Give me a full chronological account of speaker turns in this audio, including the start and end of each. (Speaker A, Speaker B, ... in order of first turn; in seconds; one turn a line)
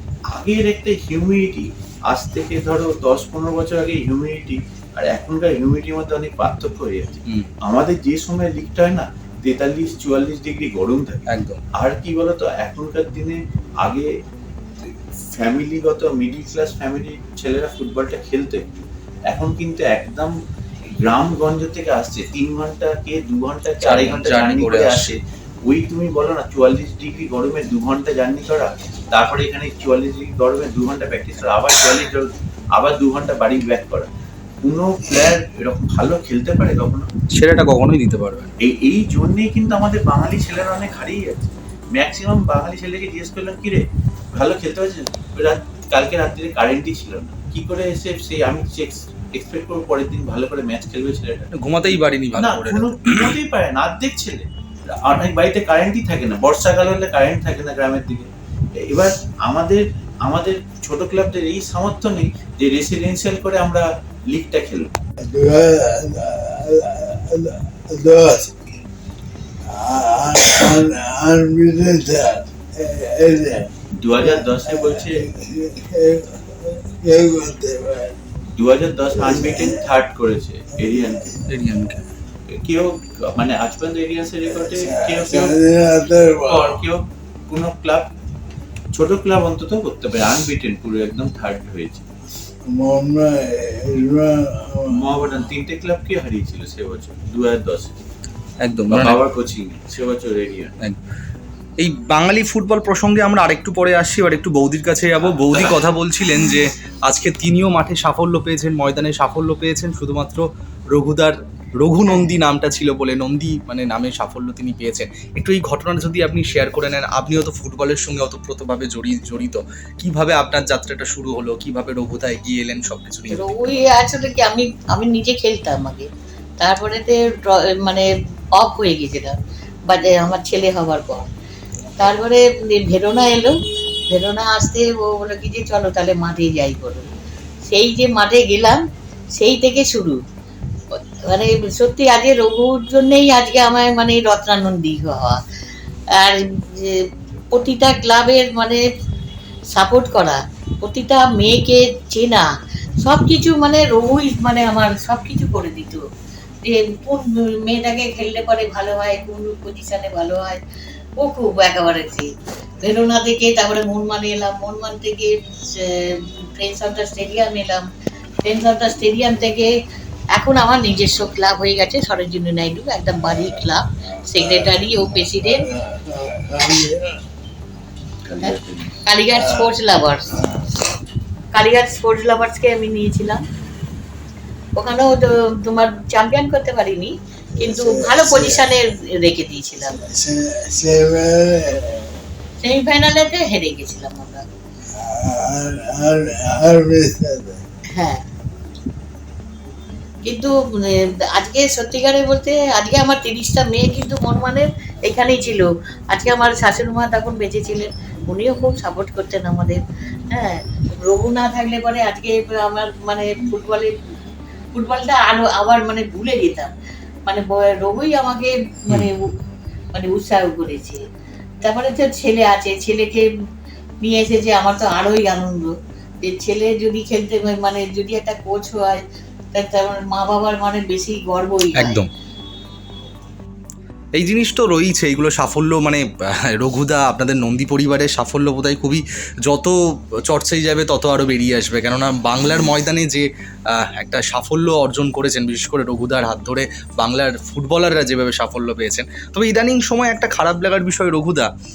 Speaker A: 0.3-11.2
Speaker B: 11.3-11.6
Speaker A: 11.8-14.1
Speaker A: 15.3-18.6
Speaker A: 19.3-20.3
Speaker A: 21.0-34.1
Speaker B: 23.8-25.1
Speaker A: 34.6-37.1
Speaker B: 37.3-38.5
Speaker A: 38.6-43.8
Speaker A: 44.4-58.3
Speaker B: 51.6-53.3
Speaker A: 58.8-64.9
Speaker C: 65.2-68.6
Speaker C: 69.7-78.2
Speaker A: 74.0-75.2
Speaker A: 78.6-81.3
Speaker C: 79.2-79.8
Speaker C: 80.8-81.9
Speaker B: 81.5-81.9
Speaker A: 82.5-85.6
Speaker C: 84.5-86.8
Speaker A: 86.5-88.1
Speaker A: 89.0-92.0
Speaker C: 92.7-95.4
Speaker A: 94.9-98.0
Speaker B: 98.7-99.1
Speaker A: 98.9-100.7
Speaker B: 101.8-110.4
Speaker B: 110.9-123.7
Speaker D: 112.1-112.3
Speaker D: 123.3-126.1
Speaker D: 126.6-129.4
Speaker D: 129.9-131.2
Speaker D: 132.0-133.5
Speaker D: 134.1-137.1
Speaker D: 137.7-138.8
Speaker D: 139.4-140.2
Speaker D: 141.3-145.4
Speaker D: 146.2-148.8
Speaker D: 149.8-152.5
Speaker D: 153.0-156.0
Speaker D: 156.7-160.6
Speaker D: 161.2-162.3
Speaker D: 162.8-167.9
Speaker D: 168.4-169.7
Speaker D: 170.3-175.7
Speaker C: 173.2-173.7
Speaker C: 174.2-177.2
Speaker A: 178.2-179.0
Speaker D: 179.1-180.3
Speaker C: 179.4-179.7
Speaker C: 180.3-180.8
Speaker D: 181.5-183.4
Speaker D: 184.8-190.0
Speaker C: 187.6-188.7
Speaker C: 189.8-192.1
Speaker D: 192.6-194.4
Speaker C: 195.0-197.6
Speaker D: 198.0-198.2
Speaker D: 200.3-213.9
Speaker D: 214.8-216.7
Speaker D: 217.3-219.2
Speaker D: 219.9-221.0
Speaker D: 221.6-223.3
Speaker D: 224.0-229.0
Speaker D: 229.5-232.0
Speaker B: 234.2-239.7
Speaker B: 240.3-251.5